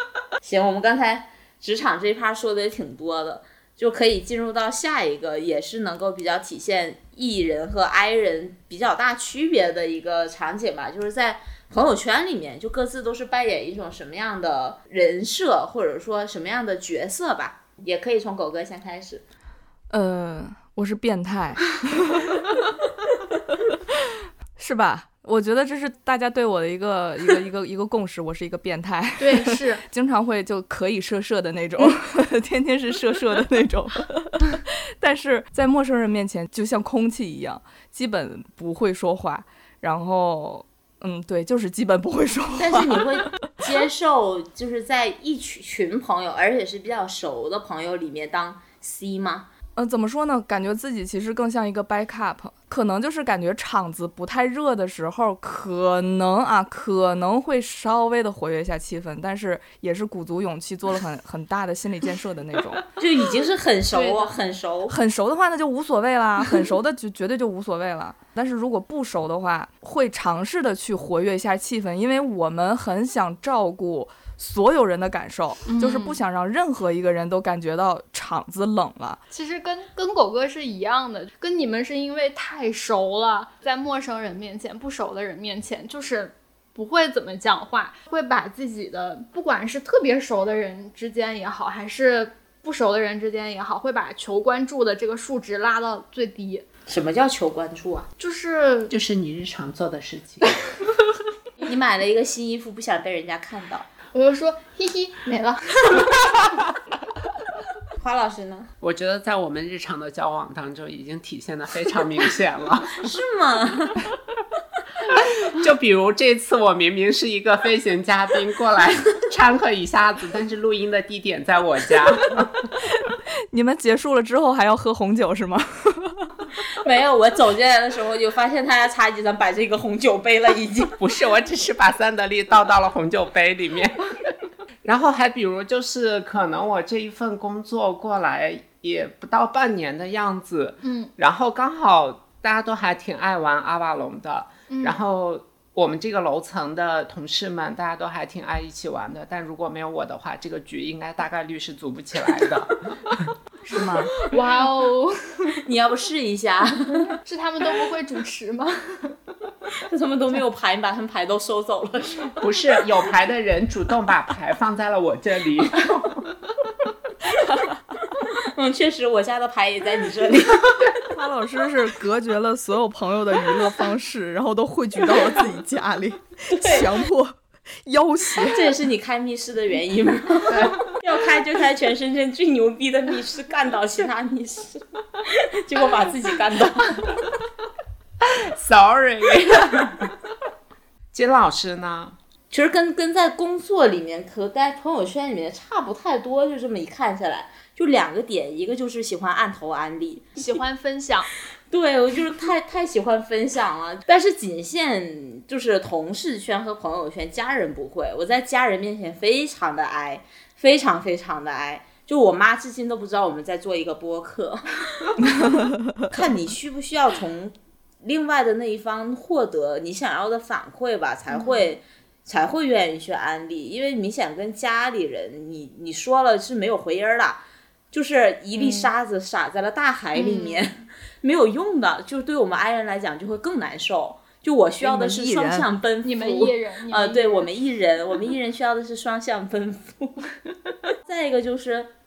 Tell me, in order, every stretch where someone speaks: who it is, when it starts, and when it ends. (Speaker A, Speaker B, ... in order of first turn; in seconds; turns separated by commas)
Speaker A: 0.4-19.2, Speaker B: 19.9-22.2, Speaker B: 24.6-43.3, Speaker C: 29.2-29.8, Speaker A: 42.6-49.5, Speaker B: 49.8-62.8, Speaker A: 63.0-64.9, Speaker C: 63.9-64.3, Speaker B: 64.9-79.2, Speaker C: 75.7-76.2, Speaker C: 79.3-96.6, Speaker A: 96.9-98.1, Speaker C: 98.2-98.9, Speaker D: 98.9-100.5, Speaker A: 101.6-103.9, Speaker C: 104.1-106.1, Speaker A: 108.0-108.7, Speaker D: 108.8-113.1, Speaker A: 113.0-114.1, Speaker D: 115.2-122.4, Speaker B: 123.5-126.3, Speaker A: 126.8-131.0, Speaker D: 131.0-134.1, Speaker D: 134.8-153.3, Speaker C: 140.8-141.1, Speaker C: 144.7-145.0, Speaker B: 153.7-154.1, Speaker C: 153.7-155.6, Speaker A: 155.6-157.1, Speaker C: 157.2-159.1, Speaker A: 159.9-162.3, Speaker D: 162.4-166.2, Speaker A: 168.4-170.9, Speaker B: 171.1-178.7, Speaker A: 176.5-176.9, Speaker A: 178.4-187.1, Speaker D: 180.5-180.8, Speaker D: 188.2-190.0, Speaker D: 191.1-192.2, Speaker A: 192.5-200.4, Speaker C: 200.3-201.3, Speaker A: 201.7-215.3, Speaker B: 215.3-215.8, Speaker A: 216.1-240.3, Speaker C: 221.3-221.7, Speaker C: 228.6-228.9, Speaker C: 230.1-230.7, Speaker B: 234.8-235.7, Speaker C: 236.0-237.5, Speaker A: 241.0-241.9